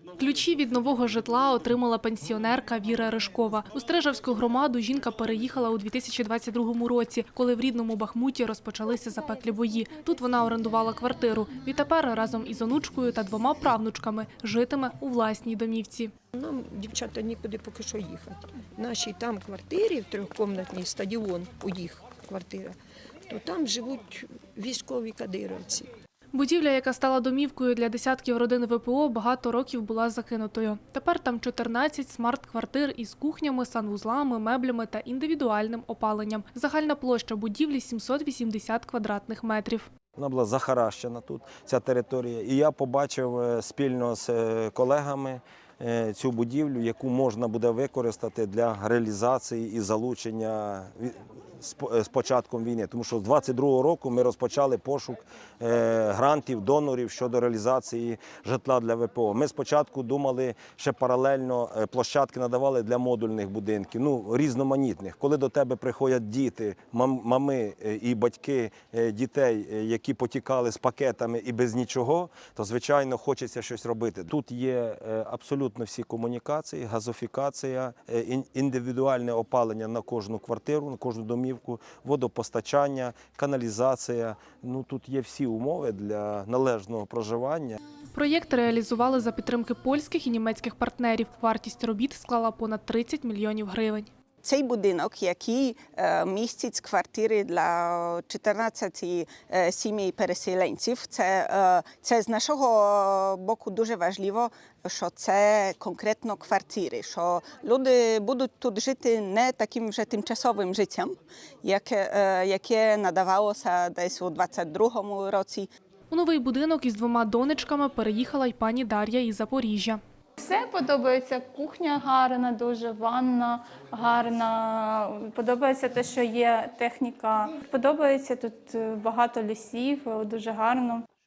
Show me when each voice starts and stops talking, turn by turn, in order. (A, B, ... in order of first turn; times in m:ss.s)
0:00.2-0:16.1 A
0:16.3-0:22.8 B
0:23.3-0:25.9 B
0:26.3-0:39.9 A
0:40.2-1:27.8 C
1:28.1-1:34.1 A
1:34.4-1:55.7 D
1:56.1-2:00.0 A
2:00.4-2:11.0 E